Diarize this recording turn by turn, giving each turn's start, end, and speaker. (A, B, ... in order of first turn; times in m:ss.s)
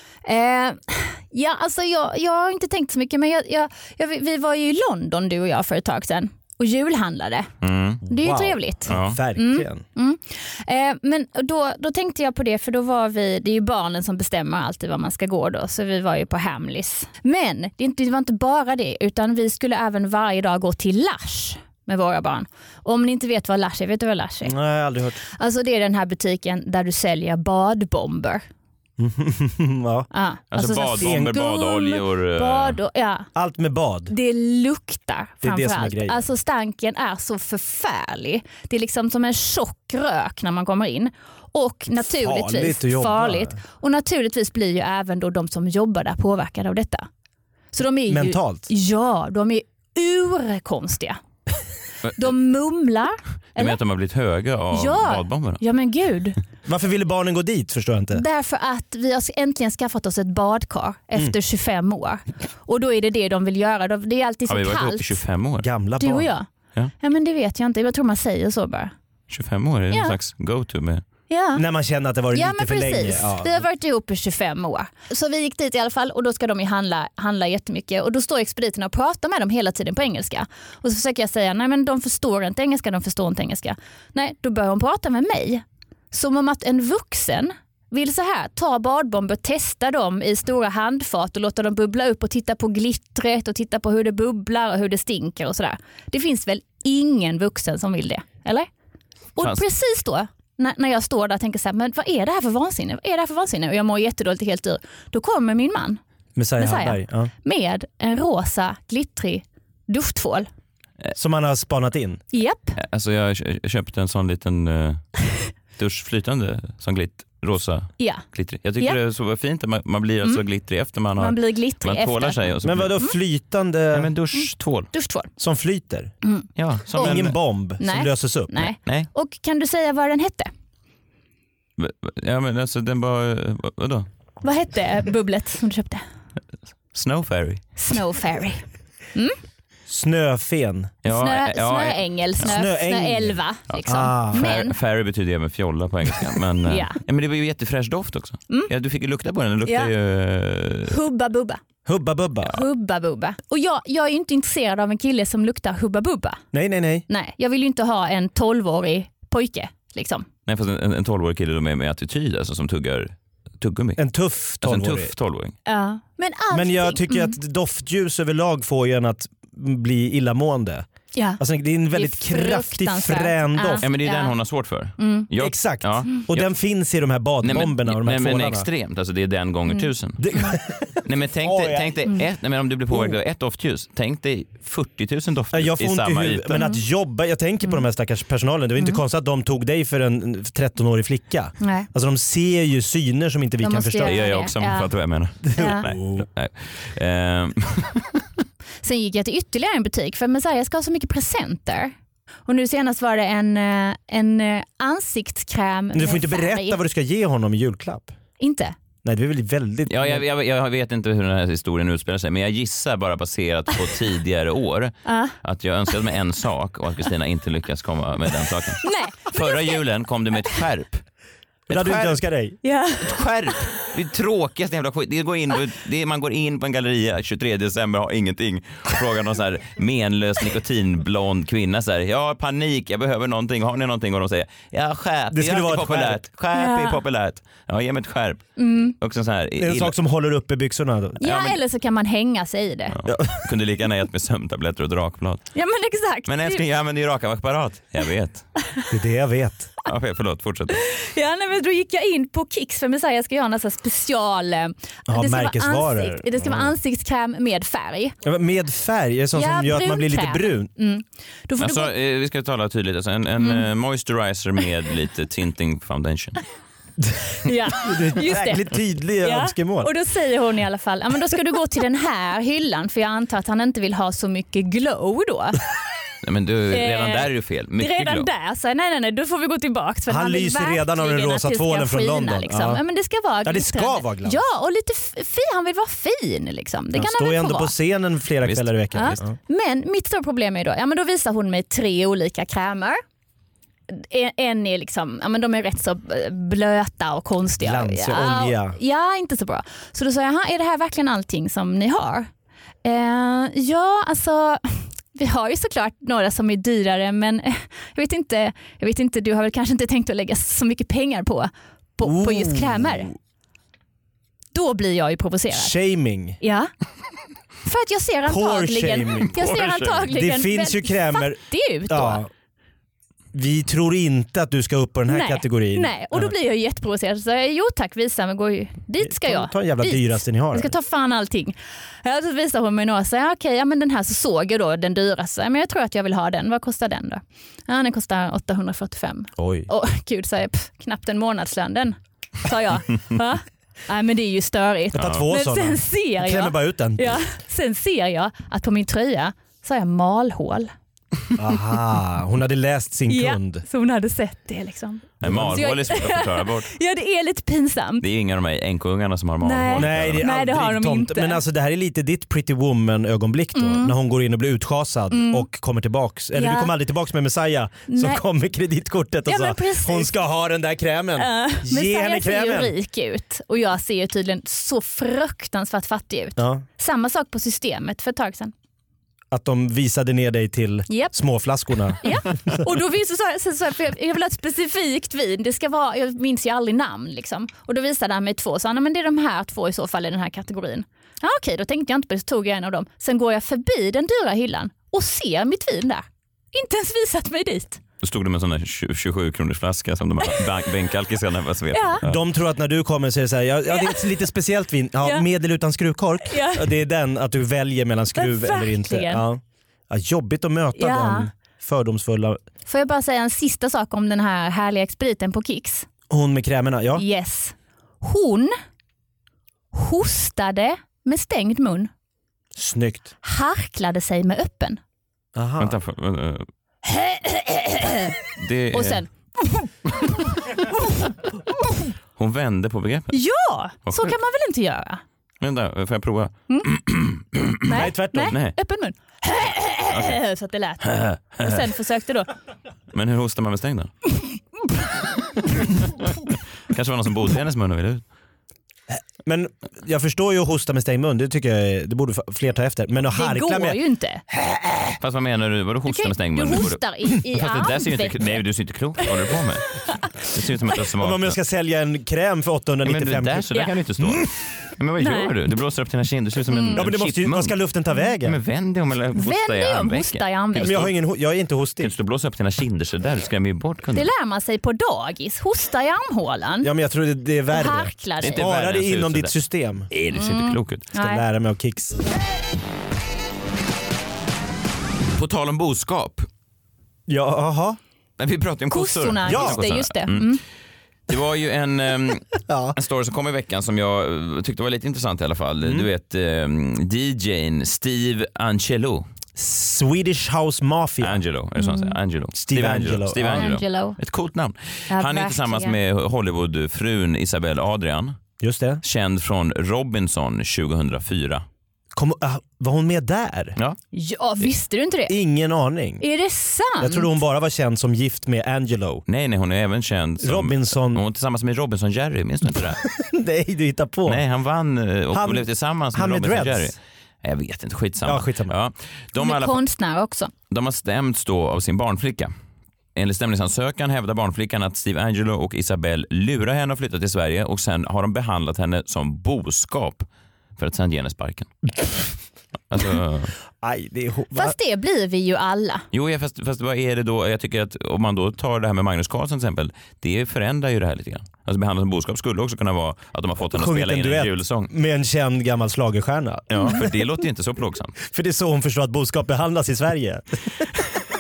0:00.2-0:07.5 A
0:07.6-0:08.0 B
0:08.0-0:09.8 C
0:08.1-0:24.5 A
0:08.9-0:09.2 B
0:24.4-0:25.2 C
0:25.4-0:28.4 A
0:29.0-0:30.1 C
0:30.1-0:33.3 A
0:30.5-0:32.8 B
0:31.0-0:31.3 C
0:33.3-0:34.1 C
0:34.1-0:47.1 A
0:35.4-0:36.2 C
0:42.0-0:43.6 C
0:47.7-0:51.2 A
0:48.1-0:48.6 C
0:52.2-0:53.8 A
0:53.6-0:55.6 B
0:54.7-0:56.4 A
0:56.6-0:58.2 C
0:58.1-1:05.2 A
1:04.5-1:05.7 B
1:05.6-1:06.3 C
1:06.0-1:06.5 A
1:07.0-1:08.9 A
1:09.3-1:11.0 B
1:11.3-1:11.6 A
1:11.5-1:13.6 C
1:12.3-1:38.7 A
1:39.4-1:46.0 A
1:46.4-1:47.3 C
1:46.6-1:50.5 A
1:51.1-1:52.2 C
1:52.3-1:52.8 A
1:52.8-2:02.9 B
1:58.0-1:58.2 A
2:01.2-2:02.4 A
2:02.6-2:04.1 C
2:03.9-2:04.9 B
2:04.3-2:05.3 A
2:05.4-2:06.1 C
2:06.2-2:07.2 A
2:06.6-2:07.3 B
2:06.9-2:08.6 C
2:07.8-2:10.5 A
2:08.8-2:09.1 B
2:11.8-2:14.1 B
2:14.4-2:16.0 A
2:16.9-2:17.6 B
2:17.8-2:18.6 A
2:19.9-2:20.9 C
2:21.0-2:22.5 B
2:21.1-2:24.8 A
2:22.4-2:24.5 C
2:23.7-2:31.0 B
2:26.6-2:27.0 A
2:29.6-2:29.9 A
2:30.9-2:31.6 A
2:31.8-2:32.6 C
2:32.4-2:36.4 A
2:36.5-2:37.0 C
2:37.1-2:40.2 A
2:40.5-2:44.0 B
2:44.0-2:45.1 C
2:44.6-2:45.6 B
2:45.6-2:47.4 A
2:46.5-2:50.8 C
2:51.1-2:51.4 A
2:51.4-2:53.8 C
2:51.9-2:54.3 A
2:53.8-2:56.5 B
2:55.0-2:55.3 A
2:55.4-2:58.6 C
2:57.4-3:00.2 B
2:59.7-3:00.5 A
3:00.2-3:02.0 C
3:01.0-3:06.6 B
3:02.9-3:03.2 C
3:05.5-3:14.2 C
3:06.5-3:06.8 A
3:11.6-3:11.9 A
3:13.6-3:14.9 A
3:14.0-3:18.1 B
3:15.4-3:15.9 A
3:15.5-3:16.2 C
3:18.8-3:21.9 A
3:22.4-3:26.8 A
3:25.9-3:28.1 C
3:28.4-3:28.7 A
3:29.0-3:30.2 C
3:29.9-3:41.0 B
3:35.0-3:35.3 A
3:38.8-3:39.8 A
3:41.7-3:42.2 B
3:41.7-3:42.6 C
3:42.6-3:43.1 A
3:43.0-3:59.9 B
3:55.3-3:56.2 C
3:56.5-3:57.0 A
3:58.6-3:58.9 A
3:59.6-4:01.2 C
4:01.2-4:02.9 A
4:01.2-4:01.6 B
4:02.9-4:05.5 B
4:03.1-4:03.3 C
4:05.5-4:06.6 A
4:06.3-4:08.4 B
4:08.9-4:09.7 C
4:09.8-4:10.8 B
4:10.8-4:18.1 A
4:15.1-4:16.7 C
4:18.2-4:20.7 C
4:19.3-4:21.9 A
4:21.6-4:26.4 B
4:23.4-4:23.6 A
4:27.4-4:35.6 A
4:27.8-4:29.9 C
4:36.2-4:38.3 B
4:36.7-4:47.7 A
4:40.1-4:42.8 C
4:43.4-4:44.4 C
4:46.9-4:49.4 C
4:48.4-4:49.2 B
4:48.9-4:53.0 A
4:53.9-5:02.3 A
4:57.6-4:58.8 C
5:02.8-5:13.1 A
5:12.0-5:13.1 C
5:14.5-5:15.7 A
5:15.5-5:16.4 C
5:16.4-5:16.7 A
5:17.6-5:22.2 A
5:18.3-5:19.4 C
5:19.4-5:20.1 B
5:20.1-5:22.3 C
5:23.3-5:26.3 C
5:25.1-5:50.7 A
5:29.0-5:30.7 C
5:39.4-5:39.7 C
5:44.9-5:45.2 B
5:45.0-5:47.2 C
5:51.4-5:53.6 C
5:53.1-5:58.0 A
5:55.2-5:56.7 B
5:55.2-5:55.6 C
5:58.0-6:00.2 B
5:59.4-6:01.4 A
5:59.7-6:12.7 C
6:03.5-6:03.9 A
6:05.1-6:05.4 A
6:06.3-6:06.7 A
6:07.9-6:08.2 A
6:09.2-6:10.2 A
6:11.2-6:18.5 A
6:16.4-6:16.6 C
6:19.3-6:22.6 C
6:22.0-6:37.8 A
6:38.0-6:42.2 B
6:41.7-6:42.0 A
6:42.0-6:52.4 C
6:43.7-6:44.0 A
6:46.3-6:46.7 A
6:48.1-6:49.2 A
6:50.7-6:51.3 A
6:52.7-6:55.9 A
6:56.1-6:57.0 C
6:57.0-6:58.5 A
6:59.7-7:01.9 A
7:02.6-7:03.1 C
7:03.2-7:04.8 A
7:05.3-7:05.7 C
7:05.6-7:06.5 B
7:06.8-7:08.1 A
7:08.4-7:09.0 B
7:08.7-7:10.1 A
7:10.7-7:11.1 A
7:12.2-7:13.1 B
7:13.1-7:15.0 A
7:13.8-7:14.1 B
7:15.4-7:18.5 B
7:17.6-7:22.3 A
7:17.7-7:18.3 C
7:20.8-7:21.6 B
7:22.9-7:23.9 B
7:25.5-7:26.0 B
7:26.7-7:28.0 B
7:29.2-7:33.8 C
7:33.1-7:34.2 A
7:35.0-7:41.4 B
7:35.9-7:38.4 A
7:41.0-7:44.2 C
7:42.8-7:47.6 B
7:45.0-7:45.3 A
7:46.5-7:46.9 A
7:46.7-7:48.4 C
7:48.2-7:50.9 B
7:49.1-7:50.8 A
7:50.6-7:51.9 C
7:51.8-7:54.1 B
7:53.9-7:56.7 A
7:56.6-7:59.9 C
7:57.5-7:58.4 A
7:58.2-7:59.3 B
7:59.9-8:00.9 B
8:00.1-8:01.2 A
8:00.9-8:02.0 C
8:05.1-8:06.3 B
8:07.1-8:07.8 C
8:08.2-8:10.4 B
8:08.7-8:10.4 A
8:09.2-8:09.6 C
8:11.1-8:19.0 B
8:12.5-8:12.8 C
8:15.6-8:15.9 C
8:19.4-8:21.2 C
8:21.0-8:28.2 B
8:21.6-8:22.0 A
8:22.4-8:23.5 C
8:23.3-8:24.0 A
8:24.9-8:25.8 A
8:28.4-8:28.8 C
8:28.8-8:31.4 B
8:31.9-8:33.6 C
8:33.9-8:35.1 A
8:35.1-8:36.0 C
8:36.0-8:37.1 A
8:36.8-8:39.0 C
8:39.1-8:42.8 B
8:40.2-8:41.0 C
8:42.8-8:44.2 C
8:44.0-8:49.6 B
8:45.1-8:46.7 C
8:48.0-8:48.5 C
8:49.2-8:50.3 A
8:50.5-8:52.3 B
8:53.0-9:00.0 B
9:00.6-9:01.5 B
9:02.7-9:03.3 B
9:03.6-9:04.5 C
9:04.3-9:05.8 A
9:05.9-9:14.7 B
9:13.4-9:16.9 C
9:16.5-9:18.0 B
9:18.0-9:20.6 C